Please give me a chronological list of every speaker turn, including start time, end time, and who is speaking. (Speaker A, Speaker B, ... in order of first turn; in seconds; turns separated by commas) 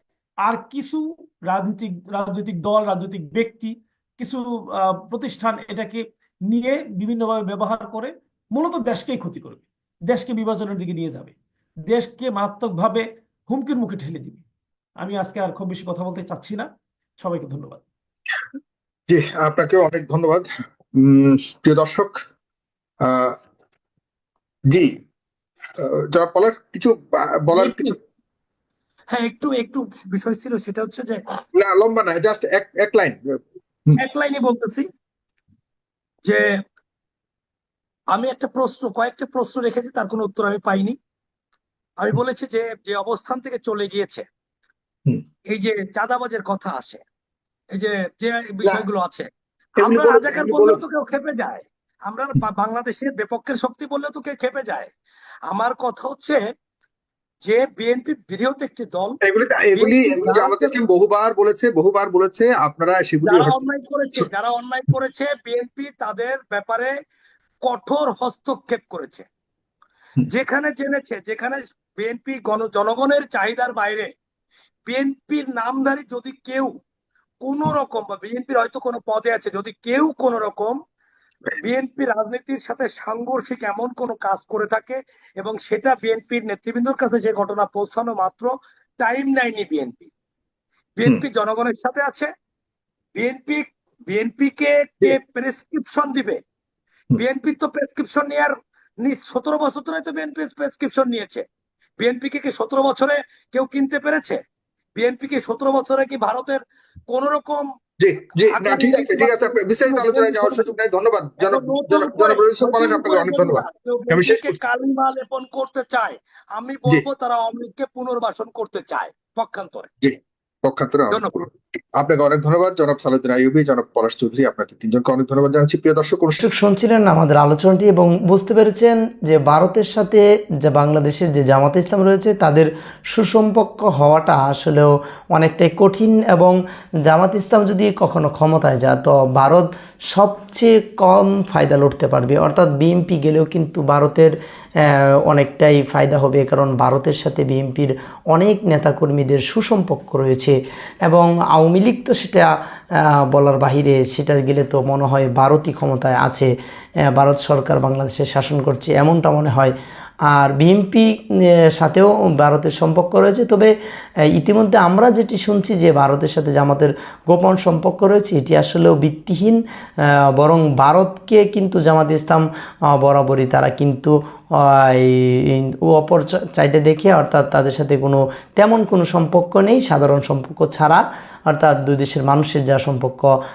Speaker A: 0.5-11.3, Speaker A: 11.9-14.4, Speaker A: 15.0-16.7, Speaker A: 17.2-17.8, Speaker B: 19.1-20.4, Speaker B: 21.0-22.1, Speaker B: 23.0-23.4, Speaker B: 25.8-27.9, Speaker C: 27.5-27.9, Speaker C: 29.1-31.2, Speaker B: 31.5-33.2, Speaker C: 34.0-34.9, Speaker C: 38.1-41.0, Speaker C: 42.0-44.2, Speaker C: 45.5-47.0, Speaker C: 47.7-49.3, Speaker B: 49.8-50.9, Speaker C: 49.8-54.9, Speaker C: 55.5-56.4, Speaker C: 57.4-59.2, Speaker B: 59.2-63.6, Speaker C: 59.7-60.7, Speaker C: 63.2-66.9, Speaker C: 67.6-69.3, Speaker C: 70.3-74.1, Speaker C: 74.9-76.7, Speaker C: 77.4-80.8, Speaker C: 81.6-90.1, Speaker C: 91.0-92.3, Speaker C: 93.2-96.4, Speaker C: 97.2-98.5, Speaker C: 99.0-101.4, Speaker C: 102.0-104.4, Speaker C: 105.0-107.6, Speaker B: 108.0-114.6, Speaker C: 108.4-110.7, Speaker C: 111.4-119.9, Speaker B: 120.0-121.4, Speaker B: 122.0-126.4, Speaker D: 126.4-156.5, Speaker D: 157.1-159.7, Speaker D: 160.3-163.7, Speaker D: 164.3-183.3